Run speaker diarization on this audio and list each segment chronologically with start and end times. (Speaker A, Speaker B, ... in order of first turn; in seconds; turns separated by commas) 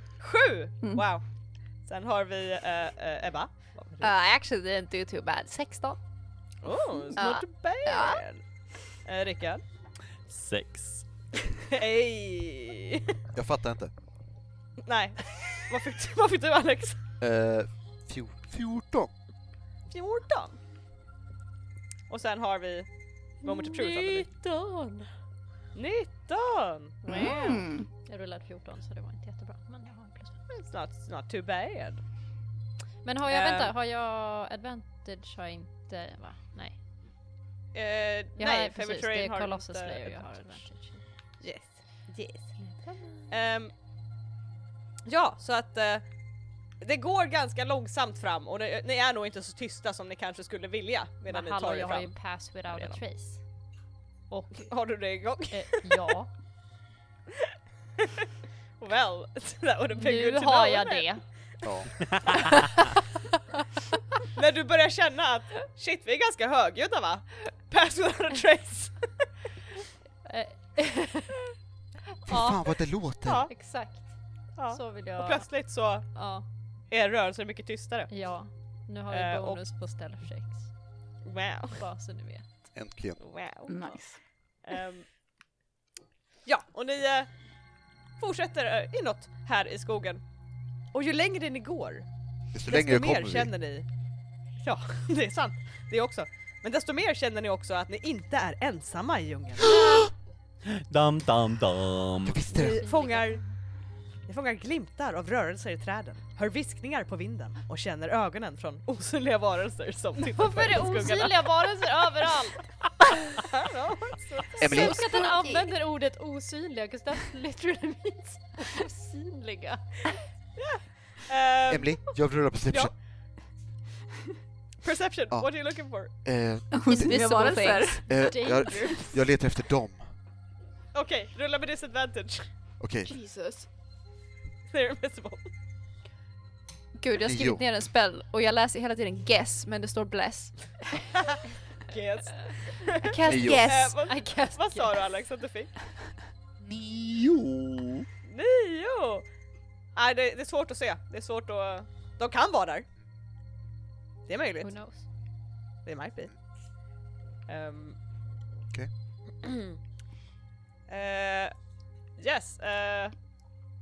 Speaker A: 0.2-1.2, Speaker A: 1.8-4.1, Speaker B: 4.0-6.0, Speaker A: 6.6-8.4, Speaker B: 7.1-8.2, Speaker A: 9.0-9.6, Speaker C: 10.3-11.1, Speaker A: 11.7-13.1, Speaker D: 13.3-13.9, Speaker A: 14.8-17.0, Speaker D: 17.2-19.1, Speaker A: 19.9-20.6, Speaker A: 22.1-22.9, Speaker A: 23.4-24.3, Speaker E: 23.4-25.1, Speaker A: 25.7-27.3, Speaker E: 27.0-30.4, Speaker F: 27.1-27.9, Speaker A: 30.5-32.0, Speaker E: 33.0-36.8, Speaker A: 33.3-33.7, Speaker A: 37.7-40.6, Speaker E: 38.4-41.0, Speaker A: 41.4-42.6, Speaker E: 42.6-43.3, Speaker A: 43.3-43.7, Speaker A: 45.0-46.0, Speaker A: 46.8-52.1, Speaker E: 51.3-53.5, Speaker A: 52.7-53.0, Speaker E: 54.3-54.7, Speaker A: 54.5-55.9, Speaker E: 55.5-56.3, Speaker A: 58.0-58.3, Speaker A: 58.8-61.1, Speaker E: 59.9-61.2, Speaker D: 61.6-61.9, Speaker A: 64.3-69.3, Speaker E: 70.2-71.4, Speaker E: 72.2-72.6, Speaker D: 72.3-73.5, Speaker A: 73.2-73.5, Speaker E: 73.5-75.5, Speaker A: 74.5-76.3, Speaker E: 76.1-76.4, Speaker A: 76.9-78.1, Speaker E: 78.1-80.7, Speaker A: 79.1-79.6, Speaker A: 81.2-81.8, Speaker E: 81.8-82.5, Speaker D: 82.7-83.2, Speaker A: 83.2-83.7, Speaker F: 83.7-84.2, Speaker A: 84.6-85.1, Speaker A: 86.4-87.3, Speaker A: 88.2-90.2, Speaker A: 90.9-92.0, Speaker D: 92.5-93.5, Speaker A: 92.7-93.9, Speaker A: 94.6-99.8, Speaker C: 100.7-102.4, Speaker D: 102.2-102.8, Speaker E: 102.5-103.5, Speaker A: 102.5-103.4, Speaker A: 104.3-111.8, Speaker E: 110.3-112.6, Speaker A: 113.3-114.9, Speaker D: 114.6-115.2, Speaker E: 114.6-120.1, Speaker B: 114.6-115.7, Speaker A: 120.5-122.0, Speaker D: 121.7-122.9, Speaker A: 124.8-126.1, Speaker D: 126.2-127.1, Speaker F: 126.7-128.1, Speaker B: 126.8-129.0, Speaker D: 128.1-130.1, Speaker E: 128.2-129.1, Speaker A: 130.9-132.5, Speaker D: 132.8-133.1, Speaker B: 133.1-133.7, Speaker A: 134.7-135.4, Speaker B: 137.0-141.1, Speaker D: 137.2-137.6, Speaker A: 141.9-145.7, Speaker B: 143.0-143.9, Speaker D: 143.2-143.7, Speaker E: 144.0-144.9, Speaker D: 146.6-148.1, Speaker A: 148.2-149.2, Speaker A: 149.9-152.8, Speaker A: 154.3-154.7, Speaker E: 154.6-155.1, Speaker A: 155.8-156.3, Speaker A: 157.5-158.0, Speaker A: 160.9-161.5, Speaker A: 162.2-163.1